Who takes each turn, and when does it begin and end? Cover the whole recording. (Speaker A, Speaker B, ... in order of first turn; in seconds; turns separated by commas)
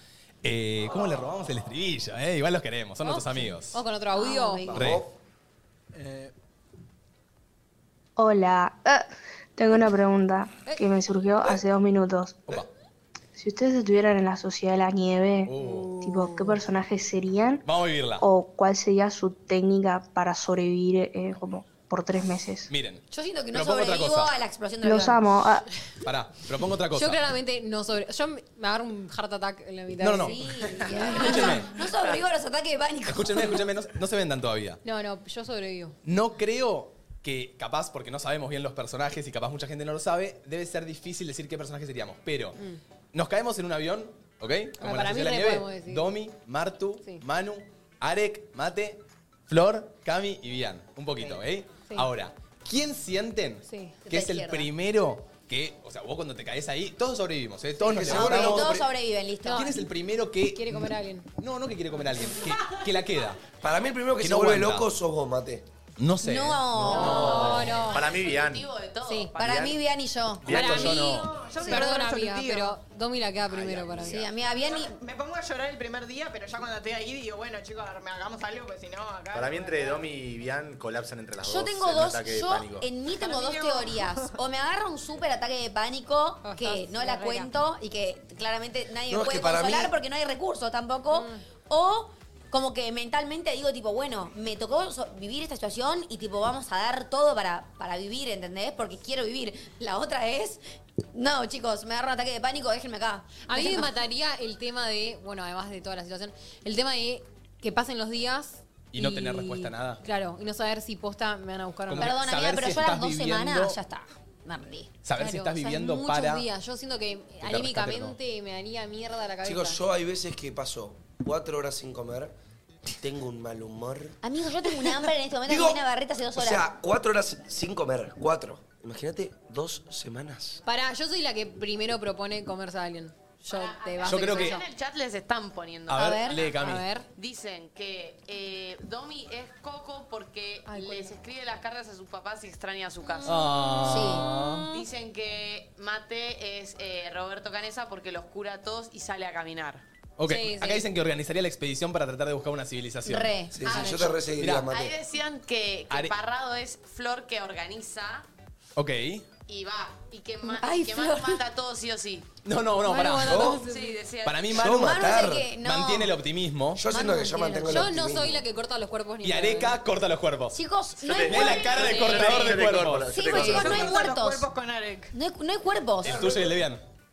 Speaker A: 0.4-3.8, Speaker B: 3.0-4.7, Speaker C: 4.1-4.9, Speaker A: 4.7-5.0, Speaker D: 4.7-5.1, Speaker E: 5.9-6.3, Speaker F: 8.2-12.6, Speaker F: 13.3-17.6, Speaker A: 15.4-16.0, Speaker B: 15.6-16.6, Speaker A: 17.6-18.2, Speaker F: 18.2-22.7, Speaker A: 22.7-24.3, Speaker C: 23.1-25.3, Speaker F: 24.8-25.6, Speaker A: 26.0-27.2, Speaker B: 26.9-31.6, Speaker A: 30.0-31.9, Speaker C: 30.1-33.6, Speaker A: 33.1-34.8, Speaker B: 34.8-36.0, Speaker A: 36.0-42.6, Speaker A: 43.1-58.9, Speaker B: 44.8-46.1, Speaker B: 53.7-54.0, Speaker C: 54.1-54.7, Speaker D: 57.8-58.8, Speaker C: 58.0-59.7, Speaker B: 59.4-59.7, Speaker A: 59.5-63.4, Speaker B: 60.5-61.2, Speaker D: 63.6-65.6, Speaker A: 64.2-64.9, Speaker A: 66.0-67.8, Speaker C: 66.2-67.8, Speaker B: 66.8-68.1, Speaker E: 66.9-68.7, Speaker G: 67.9-69.7, Speaker B: 69.0-69.3, Speaker E: 69.3-69.8, Speaker C: 69.3-71.0, Speaker E: 70.4-71.0, Speaker A: 70.5-71.3, Speaker B: 70.5-74.2, Speaker H: 71.0-72.8, Speaker C: 71.6-71.9, Speaker E: 73.5-74.3, Speaker C: 74.0-74.9, Speaker H: 74.5-80.1, Speaker E: 79.3-82.9, Speaker C: 81.4-100.6, Speaker H: 83.2-84.3, Speaker B: 86.4-87.5, Speaker D: 89.1-89.9, Speaker B: 91.1-91.4, Speaker C: 101.1-103.9, Speaker B: 103.4-112.1, Speaker A: 108.9-110.0, Speaker A: 111.9-113.8, Speaker C: 112.0-114.9, Speaker A: 115.0-116.5, Speaker B: 115.2-119.8, Speaker A: 117.4-118.2, Speaker D: 119.4-122.3, Speaker D: 122.9-124.2, Speaker C: 124.2-126.7, Speaker D: 125.5-125.8, Speaker D: 126.3-130.6, Speaker B: 130.7-134.6, Speaker G: 133.5-136.6, Speaker A: 134.0-134.6, Speaker A: 135.9-136.9, Speaker C: 135.9-136.4, Speaker B: 136.5-137.1, Speaker G: 137.1-143.4, Speaker B: 140.7-141.1, Speaker A: 143.2-144.7, Speaker C: 143.8-144.3, Speaker G: 144.7-149.8, Speaker A: 150.2-153.3, Speaker B: 150.3-150.8, Speaker C: 153.0-154.1, Speaker D: 153.5-154.9, Speaker G: 153.7-154.2, Speaker B: 153.7-154.1, Speaker A: 154.4-154.7, Speaker G: 154.7-158.2, Speaker A: 158.8-159.2, Speaker G: 159.4-162.3, Speaker C: 160.4-161.4, Speaker A: 162.4-163.5, Speaker B: 162.8-164.0, Speaker D: 163.2-163.6, Speaker G: 163.3-164.5, Speaker A: 164.2-164.9, Speaker D: 164.5-165.5, Speaker C: 164.6-166.1, Speaker A: 165.6-166.8, Speaker D: 166.7-168.4, Speaker C: 166.9-167.9, Speaker B: 167.7-169.8, Speaker A: 169.2-170.6, Speaker C: 170.5-172.2, Speaker E: 171.0-174.0, Speaker A: 171.2-173.2, Speaker C: 173.1-174.5, Speaker H: 173.4-175.1, Speaker C: 175.1-176.4, Speaker A: 176.0-176.8